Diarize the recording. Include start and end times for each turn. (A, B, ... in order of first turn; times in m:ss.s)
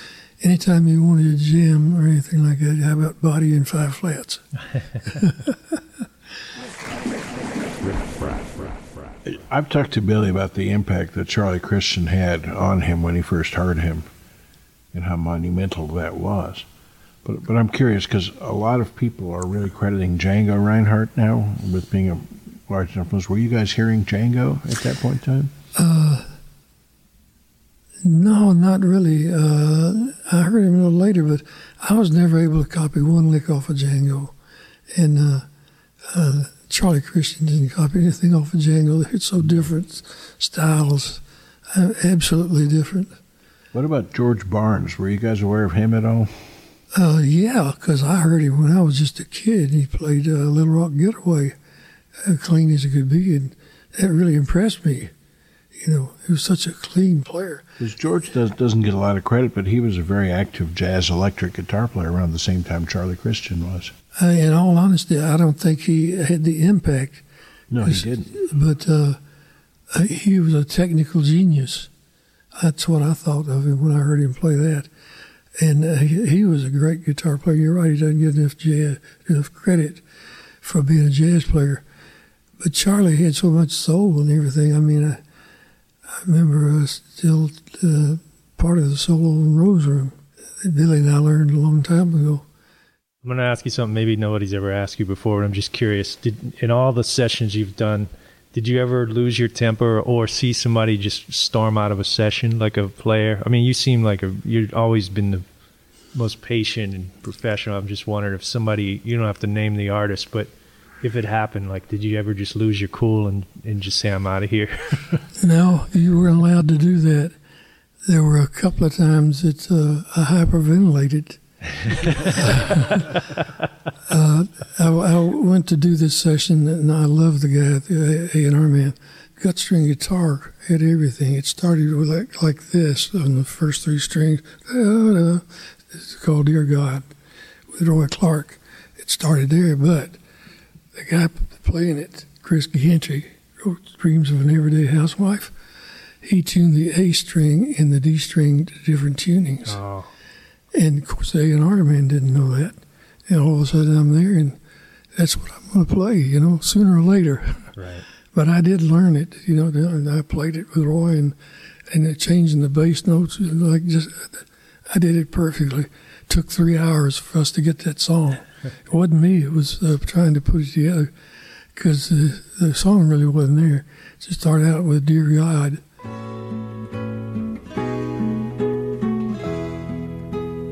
0:00.4-0:04.4 A
0:05.0-0:05.8 A
0:09.2-0:14.0 B
0:14.9-0:16.6 B
0:17.2-0:25.5 B
0:25.7-0:26.3 A
0:28.0-0:34.3 A
0:34.9-0:35.5 A
0:36.0-0:43.2 A
0:43.7-0:46.4 B
0:46.9-0:51.6 A
0:52.2-0:55.1 A
0:55.7-0:57.6 A
0:57.8-1:03.9 B
1:04.2-1:07.2 A
1:07.7-1:08.4 B
1:07.8-1:09.2 A
1:09.9-1:11.9 A
1:12.6-1:14.9 A
1:15.6-1:20.0 A
1:20.6-1:21.8 A
1:22.6-1:25.2 A
1:26.1-1:32.4 A
1:33.2-1:45.4 C
1:46.1-1:55.2 C
1:55.4-1:57.3 A
1:58.0-2:01.4 A
2:02.3-2:03.1 A
2:04.1-2:17.1 A
2:17.7-2:20.2 A
2:20.9-2:25.5 A
2:26.2-2:29.8 A
2:29.6-2:30.1 C
2:30.7-2:34.6 A
2:35.1-2:37.7 A
2:37.8-2:38.0 C
2:38.3-2:41.4 A
2:41.9-2:51.1 A
2:51.7-2:55.8 A